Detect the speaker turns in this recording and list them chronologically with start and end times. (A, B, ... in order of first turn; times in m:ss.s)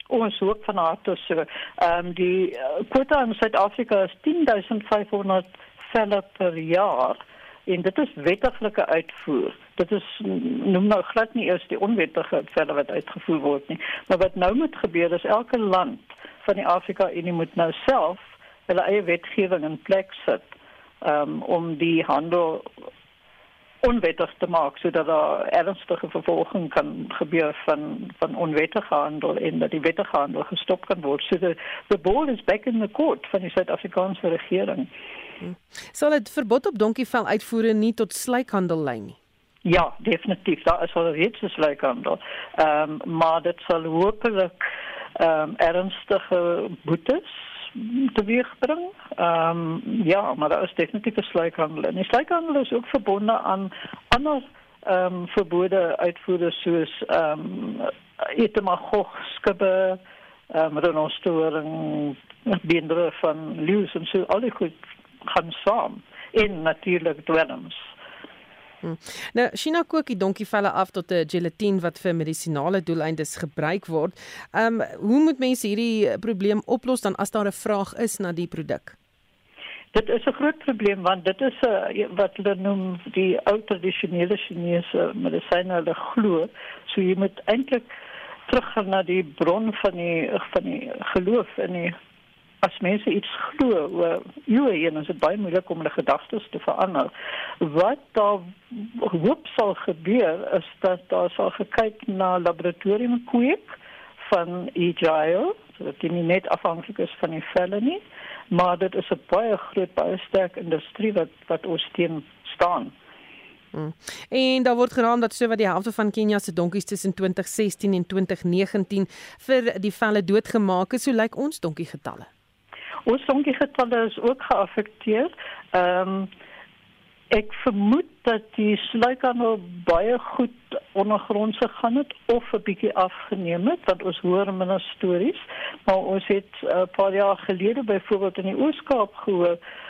0:00.1-0:20.5 A
0:21.0-0:22.7 A
0:23.8-0:34.9 A
0:35.4-0:39.2 B
0:39.6-0:44.6 A
0:45.2-1:00.0 A
1:00.5-1:07.9 A
1:08.8-1:18.9 B
1:19.9-1:27.8 A
1:28.5-1:32.0 A
1:32.6-1:37.1 A
1:37.6-1:52.9 A
1:53.7-2:02.3 B
2:03.0-2:06.3 A
2:07.3-2:19.6 A